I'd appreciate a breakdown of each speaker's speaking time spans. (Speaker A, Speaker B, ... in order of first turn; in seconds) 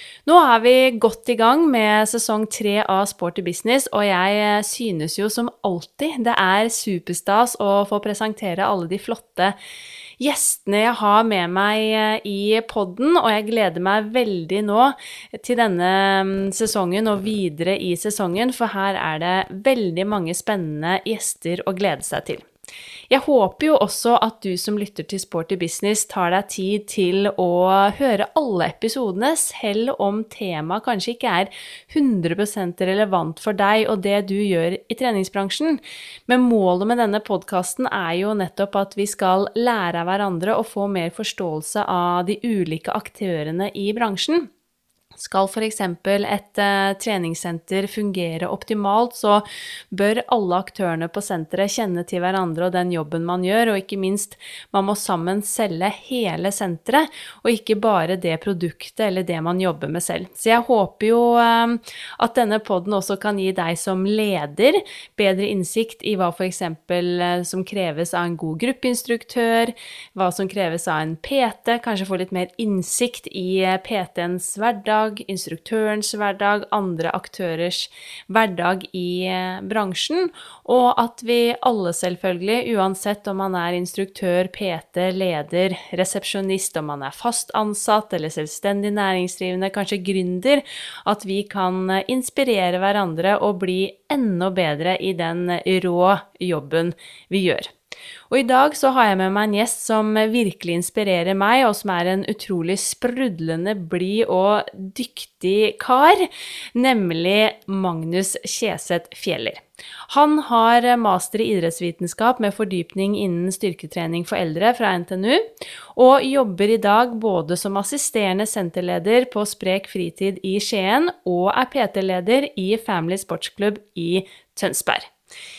Speaker A: 0.2-9.6, 10.2-22.4, 23.1-44.5, 45.2-97.7, 98.3-115.4, 116.0-125.1